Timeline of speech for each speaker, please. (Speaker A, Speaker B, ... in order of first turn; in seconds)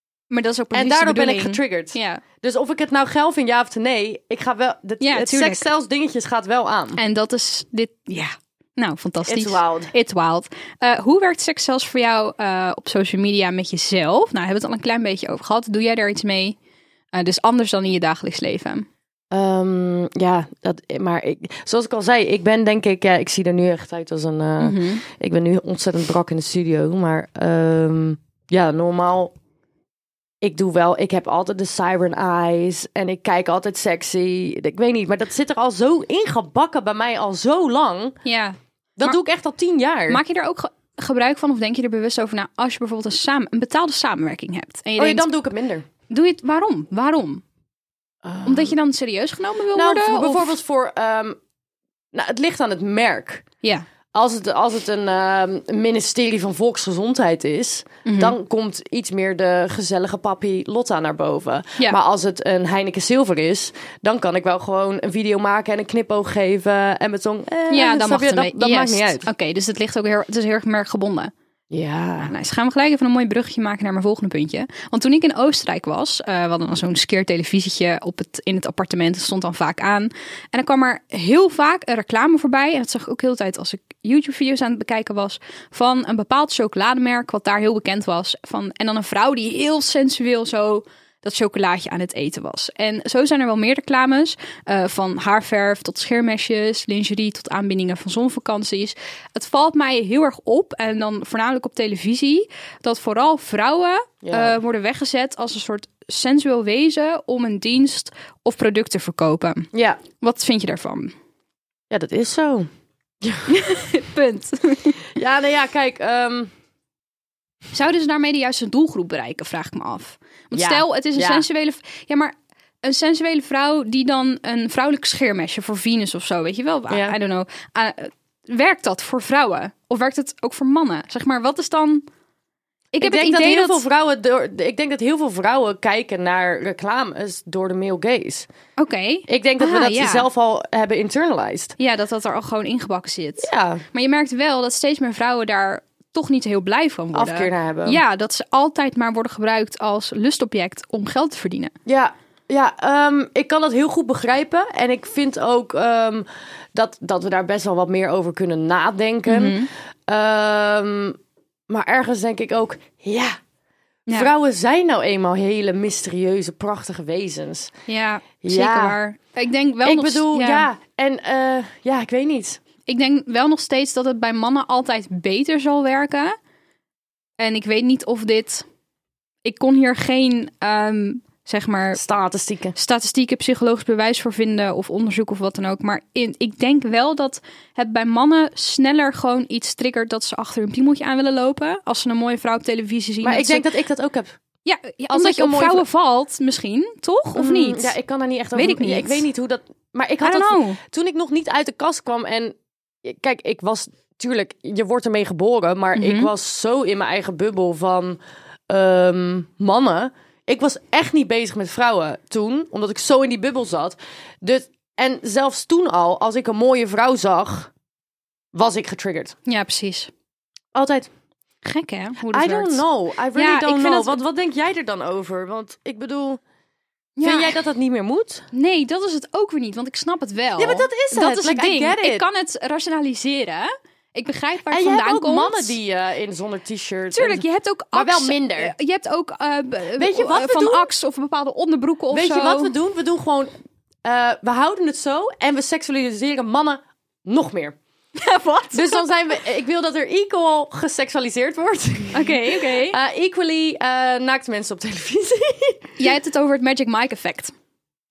Speaker A: 0.3-2.2, 5.0-5.7, 7.0-16.6, 17.1-18.9, 24.6-25.0, 38.2-39.2, 40.1-45.3, 46.1-47.4, 48.5-50.5, 58.0-58.4, 67.7-71.3, 72.2-111.2, 113.5-115.0, 117.7-132.1, 132.9-133.8, 138.8-140.3, 141.8-151.8, 159.3-159.7, 167.9-170.7, 172.9-176.4, 177.4-178.7, 179.4-182.0, 182.8-193.7, 194.7-197.9, 198.5-199.3, 200.2-200.8, 205.9-206.3, 219.5-220.1, 221.7-222.8, 223.3-224.2, 227.2-227.6, 228.5-235.8, 237.1-242.7, 248.2-249.1, 252.1-253.0, 256.0-257.5
Speaker B: 0.7-7.0, 9.3-9.9, 19.3-29.3, 30.4-38.2, 39.0-40.2, 45.0-45.9, 48.2-48.8, 49.8-51.4, 52.1-53.4, 54.1-69.3, 71.7-72.3, 104.2-104.6, 109.7-110.0, 111.9-112.7, 113.2-113.6, 115.2-116.5, 120.5-121.5, 126.9-127.2, 133.0-138.5, 139.3-141.8, 143.4-143.8, 147.1-148.0, 151.9-161.2, 161.7-163.4, 164.1-167.7, 168.4-169.0, 169.8-172.6, 181.9-182.8, 193.2-194.4, 195.1-195.9, 197.4-217.7, 218.5-219.3, 220.7-221.1, 222.3-226.4, 227.2-228.5, 230.6-232.3, 234.7-238.7, 240.0-240.9, 242.1-243.5, 244.0-247.8, 248.7-255.9